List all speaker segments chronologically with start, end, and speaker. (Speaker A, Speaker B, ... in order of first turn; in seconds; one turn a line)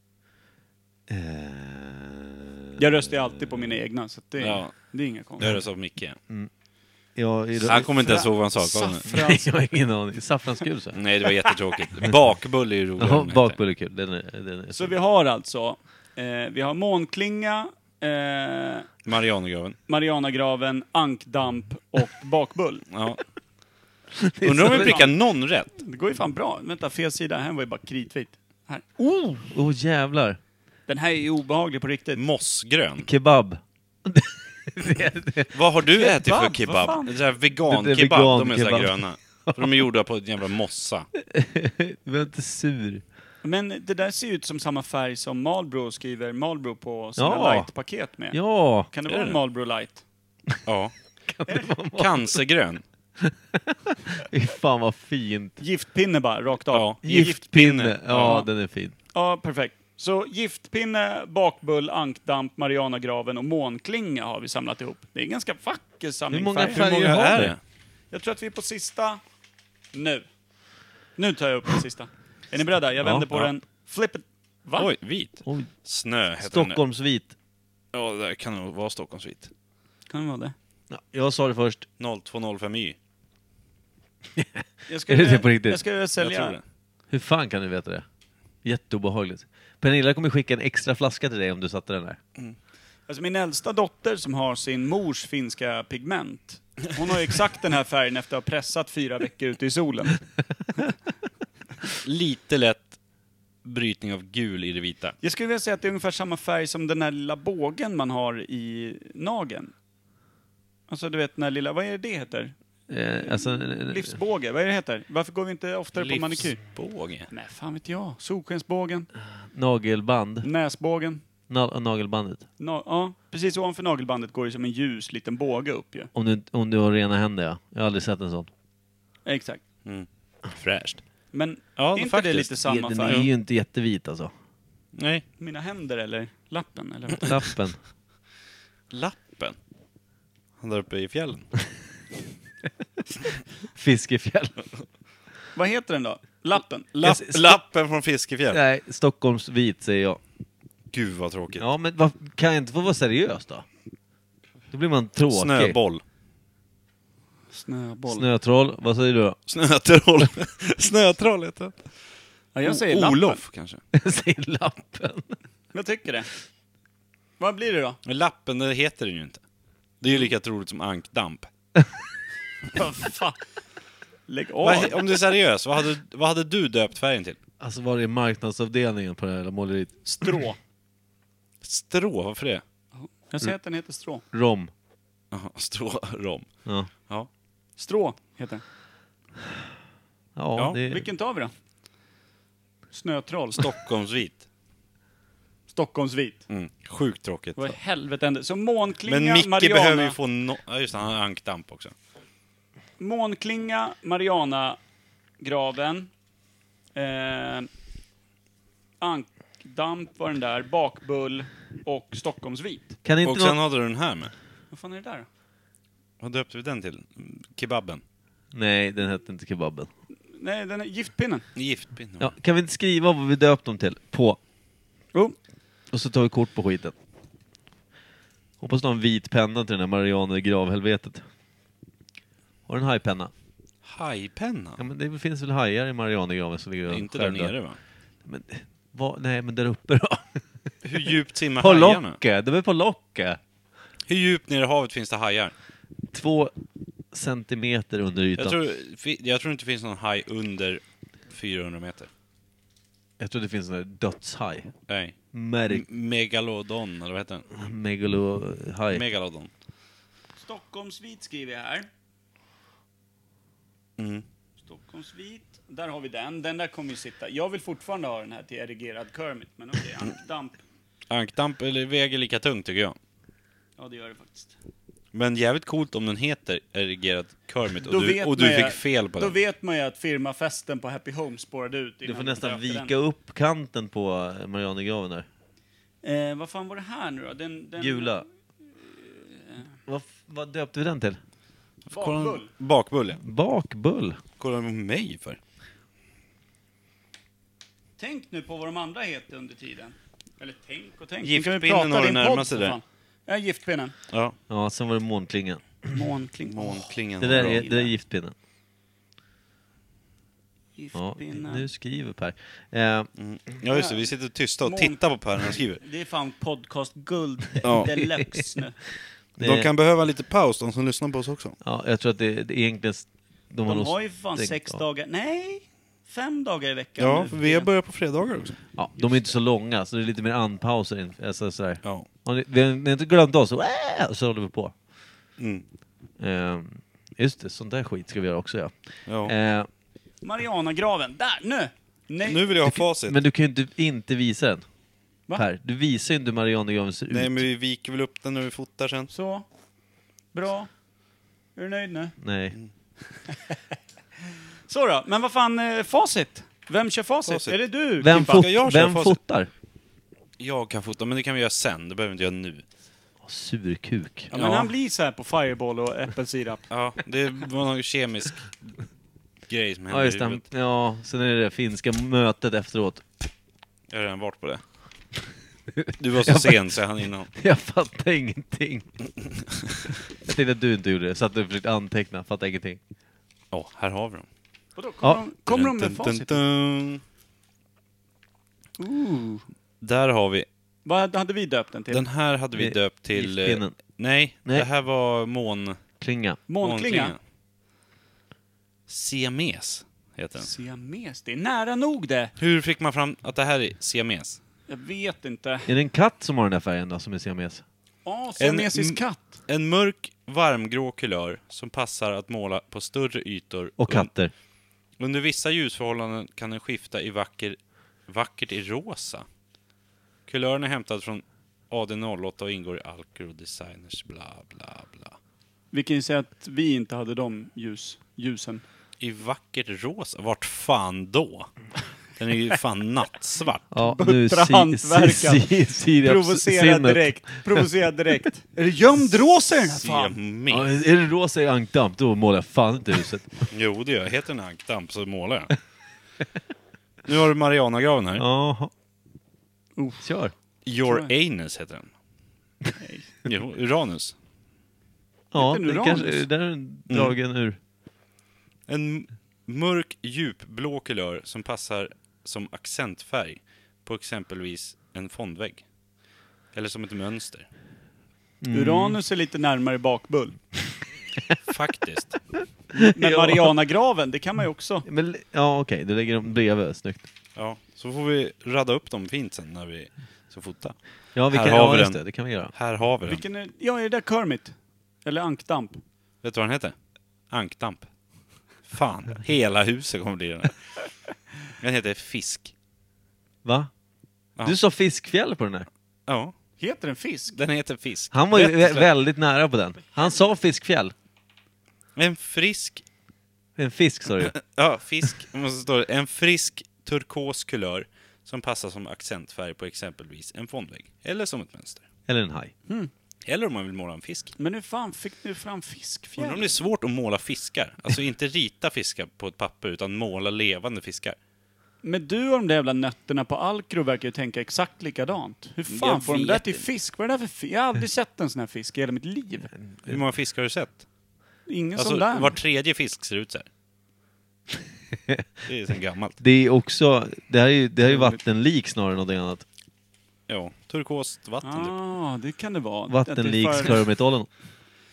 Speaker A: 1.1-2.8
Speaker B: 2.8-5.6
Speaker C: 4.4-4.7
Speaker C: 5.4-6.2
Speaker A: 7.2-8.2
Speaker C: 7.6-9.1
Speaker B: 8.0-9.5
Speaker A: 9.1-11.0
Speaker C: 10.9-13.6
Speaker A: 13.0-14.9
Speaker B: 14.7-18.9
Speaker C: 19.1-19.8
Speaker B: 19.9-22.9
Speaker C: 22.9-23.2
Speaker A: 24.2-25.1
Speaker C: 24.4-25.7
Speaker B: 24.7-25.1
Speaker B: 25.8-29.3
Speaker A: 29.0-30.4
Speaker B: 30.9-32.2
Speaker C: 32.2-33.1
Speaker A: 33.0-35.6
Speaker C: 35.5-41.1
Speaker B: 36.0-37.1
Speaker A: 37.6-39.8
Speaker A: 41.3-43.0
Speaker B: 43.4-48.4
Speaker A: 47.2-47.7
Speaker A: 48.3-48.9
Speaker B: 48.9-50.0
Speaker C: 49.1-49.4
Speaker C: 50.7-50.9
Speaker A: 51.3-52.4
Speaker C: 52.0-52.8
Speaker A: 53.2-55.6
Speaker B: 55.6-57.4
Speaker C: 56.7-58.4
Speaker A: 57.0-58.9
Speaker B: 58.2-58.5
Speaker B: 59.1-66.9
Speaker A: 66.3-67.5
Speaker C: 66.7-67.6
Speaker B: 68.1-69.2
Speaker B: 69.9-70.3
Speaker B: 71.2-74.9
Speaker A: 73.0-73.3
Speaker C: 74.8-76.8
Speaker A: 76.4-77.3
Speaker C: 77.9-79.5
Speaker B: 80.1-80.5
Speaker A: 80.9-81.9
Speaker C: 82.0-83.0
Speaker A: 84.3-85.8
Speaker B: 84.9-86.6
Speaker C: 86.2-86.6
Speaker A: 87.1-88.0
Speaker A: 88.6-92.2
Speaker B: 93.1-100.2
Speaker C: 102.0-103.0
Speaker C: 103.6-105.2
Speaker B: 105.2-109.7
Speaker B: 110.9-112.5
Speaker A: 112.9-114.1
Speaker B: 113.2-116.6
Speaker C: 115.9-117.3
Speaker B: 117.3-119.1
Speaker A: 119.5-120.5
Speaker B: 120.4-121.2
Speaker A: 121.5-122.5
Speaker B: 122.6-126.1
Speaker A: 126.1-128.5
Speaker B: 129.3-129.6
Speaker C: 129.8-131.0
Speaker B: 131.3-133.2
Speaker C: 131.8-133.3
Speaker A: 132.7-134.3
Speaker C: 135.0-135.2
Speaker B: 135.4-137.3
Speaker A: 137.2-137.8
Speaker C: 138.9-139.6
Speaker C: 140.6-141.5
Speaker A: 143.8-144.6
Speaker B: 145.6-147.0
Speaker C: 147.0-148.6
Speaker A: 147.0-147.6
Speaker A: 148.5-150.2
Speaker C: 150.9-151.7
Speaker A: 151.6-153.7
Speaker A: 154.7-155.8
Speaker C: 155.3-156.0
Speaker B: 157.5-158.3
Speaker A: 158.1-159.4
Speaker C: 159.5-161.9
Speaker B: 162.6-163.4
Speaker C: 162.7-163.8
Speaker A: 163.9-165.4
Speaker B: 165.7-166.3
Speaker B: 167.4-168.0
Speaker C: 168.1-169.4
Speaker C: 170.0-171.5
Speaker B: 172.7-173.4
Speaker B: 174.3-175.0
Speaker C: 174.6-177.4
Speaker A: 177.6-180.4
Speaker B: 180.1-180.6
Speaker C: 181.6-182.6
Speaker B: 182.9-184.2
Speaker A: 184.3-184.7
Speaker C: 185.3-186.5
Speaker B: 187.8-188.6
Speaker A: 190.4-191.1
Speaker B: 190.9-191.5
Speaker B: 192.9-193.7
Speaker C: 193.6-194.4
Speaker B: 195.7-196.5
Speaker C: 196.5-197.8
Speaker B: 197.6-200.2
Speaker C: 199.1-201.9
Speaker B: 203.0-204.8
Speaker B: 205.4-206.1
Speaker B: 206.9-207.7
Speaker B: 209.0-213.0
Speaker A: 213.1-213.6
Speaker C: 213.2-214.3
Speaker B: 214.7-215.3
Speaker C: 216.2-218.0
Speaker A: 218.5-219.9
Speaker B: 220.3-221.5
Speaker C: 221.6-222.3
Speaker A: 222.2-224.4
Speaker A: 225.9-226.9
Speaker A: 228.6-231.2
Speaker A: 232.7-233.3
Speaker C: 233.8-234.8
Speaker A: 234.8-237.5
Speaker C: 236.9-237.8
Speaker A: 238.2-240.4
Speaker C: 240.8-242.2
Speaker A: 241.0-243.4
Speaker C: 244.1-245.5
Speaker A: 246.1-246.5
Speaker A: 247.1-248.6
Speaker C: 248.4-252.1
Speaker A: 253.2-254.7
Speaker C: 254.9-255.1
Speaker A: 255.3-255.8
Speaker C: 255.7-257.5
Speaker A: 257.5-259.0
Speaker C: 258.9-259.5
Speaker B: 260.4-261.9
Speaker C: 264.0-264.2
Speaker B: 264.6-270.6
Speaker C: 271.1-273.0
Speaker B: 273.8-274.5
Speaker C: 275.1-279.4
Speaker B: 277.9-282.9
Speaker A: 282.0-285.3
Speaker B: 286.0-288.2
Speaker A: 287.8-288.2
Speaker B: 288.8-289.7
Speaker A: 289.9-291.2
Speaker C: 291.9-293.2
Speaker B: 291.9-292.5
Speaker A: 293.2-294.2
Speaker C: 294.4-295.4
Speaker B: 298.0-303.9
Speaker C: 301.2-302.8
Speaker C: 304.1-304.4
Speaker A: 304.5-305.7
Speaker B: 305.9-307.9
Speaker C: 306.5-307.7
Speaker A: 307.2-308.4
Speaker B: 310.8-311.7
Speaker A: 310.9-313.1
Speaker C: 313.2-315.8
Speaker B: 313.7-314.0
Speaker B: 314.6-315.0
Speaker B: 315.5-318.8
Speaker C: 317.6-318.0
Speaker A: 319.4-319.7
Speaker C: 319.4-321.6
Speaker A: 321.6-324.8
Speaker B: 323.7-327.7
Speaker C: 327.0-328.6
Speaker A: 328.8-334.7
Speaker C: 335.4-335.6
Speaker A: 336.2-338.7
Speaker C: 339.1-339.3
Speaker A: 339.2-339.7
Speaker B: 340.2-342.4
Speaker C: 342.2-343.2
Speaker A: 342.7-344.6
Speaker A: 345.4-347.4
Speaker C: 347.1-349.1
Speaker B: 349.1-349.5
Speaker B: 350.3-350.7
Speaker B: 351.6-352.1
Speaker A: 352.2-352.6
Speaker B: 354.7-358.4
Speaker C: 357.3-357.6
Speaker A: 358.0-359.5
Speaker C: 358.1-359.2
Speaker C: 360.4-362.6
Speaker A: 363.2-364.3
Speaker B: 364.3-366.6
Speaker C: 364.3-364.7
Speaker C: 366.7-368.6
Speaker C: 369.5-370.4
Speaker A: 369.9-373.1
Speaker C: 373.9-374.6
Speaker A: 375.8-376.8
Speaker C: 376.0-377.3
Speaker A: 377.3-378.9
Speaker A: 380.2-382.8
Speaker C: 383.5-384.3
Speaker B: 384.8-386.4
Speaker C: 385.5-387.0
Speaker B: 388.8-389.4
Speaker C: 389.8-390.5
Speaker B: 390.9-392.0
Speaker C: 391.9-395.8
Speaker A: 392.5-393.8
Speaker A: 396.0-396.4
Speaker B: 396.5-397.2
Speaker C: 396.6-397.2
Speaker C: 398.9-400.5
Speaker B: 400.4-402.3
Speaker C: 402.4-404.4
Speaker B: 404.7-405.7
Speaker A: 405.7-407.6
Speaker B: 408.1-409.4
Speaker C: 408.4-414.1
Speaker A: 413.8-414.3
Speaker C: 415.0-419.3
Speaker C: 420.3-425.2
Speaker B: 425.7-428.6
Speaker C: 429.0-431.5
Speaker C: 432.2-433.7
Speaker A: 433.7-437.7
Speaker B: 433.8-435.5
Speaker B: 436.0-440.1
Speaker C: 439.7-440.7
Speaker A: 440.5-443.4
Speaker C: 443.5-445.6
Speaker C: 447.1-448.2
Speaker A: 448.2-448.7
Speaker B: 449.8-450.1
Speaker A: 450.0-450.3
Speaker C: 450.6-451.9
Speaker B: 450.9-451.1
Speaker B: 452.8-453.1
Speaker C: 453.3-454.2
Speaker A: 455.3-457.6
Speaker B: 455.3-456.2
Speaker C: 456.9-457.1
Speaker C: 458.7-465.6
Speaker C: 466.5-467.5
Speaker A: 468.4-469.0
Speaker B: 468.5-470.4
Speaker C: 471.5-472.2
Speaker B: 472.7-474.9
Speaker A: 472.9-473.5
Speaker A: 474.9-477.1
Speaker C: 477.4-480.8
Speaker A: 481.1-482.5
Speaker C: 481.3-483.2
Speaker B: 483.1-485.8
Speaker C: 486.2-486.7
Speaker C: 487.3-487.9
Speaker C: 488.7-490.6
Speaker C: 491.6-492.5
Speaker A: 493.4-493.7
Speaker A: 494.4-495.7
Speaker C: 496.1-496.3
Speaker B: 496.6-497.4
Speaker C: 497.3-498.2
Speaker A: 498.1-500.9
Speaker B: 498.4-498.9
Speaker C: 502.0-502.8
Speaker A: 503.6-504.4
Speaker C: 504.2-511.8
Speaker A: 512.1-512.5
Speaker C: 513.2-514.3
Speaker B: 514.4-516.6
Speaker C: 516.2-521.2
Speaker B: 521.8-529.5
Speaker C: 525.7-526.6
Speaker A: 529.7-530.0
Speaker C: 529.9-530.9
Speaker B: 531.5-532.4
Speaker C: 531.8-533.5
Speaker C: 535.5-536.2
Speaker A: 536.2-539.5
Speaker B: 537.9-538.2
Speaker C: 540.3-541.7
Speaker B: 541.4-543.8
Speaker A: 542.9-544.3